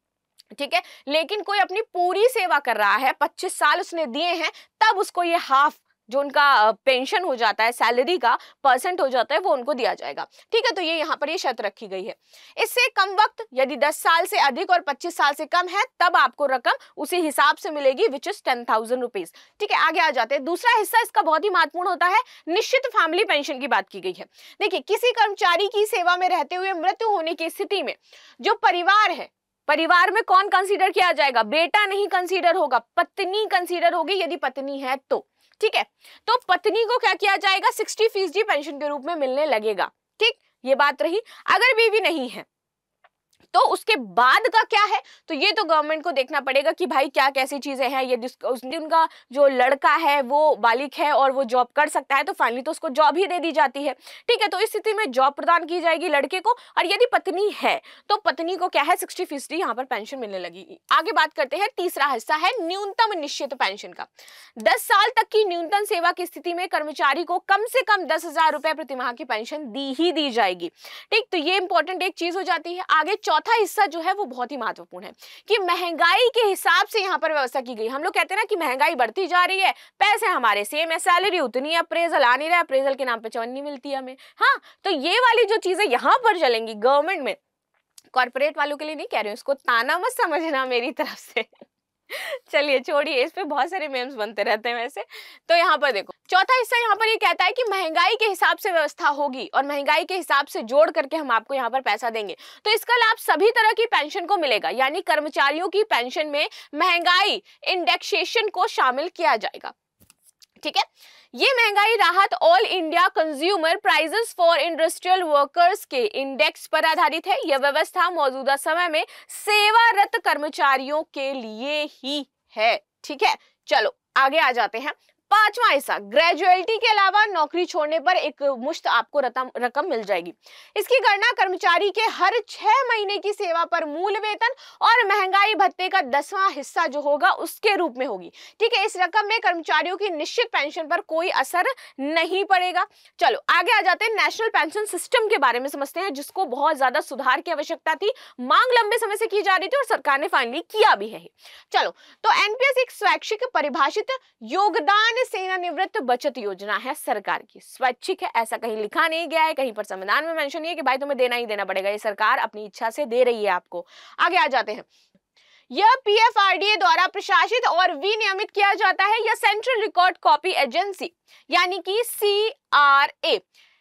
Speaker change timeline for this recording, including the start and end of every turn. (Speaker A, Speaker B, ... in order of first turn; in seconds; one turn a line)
Speaker A: 0.5-42.5
Speaker A: 43.5-87.4
Speaker A: 88.1-91.5
Speaker A: 92.1-109.7
Speaker A: 110.6-164.9
Speaker A: 165.7-173.4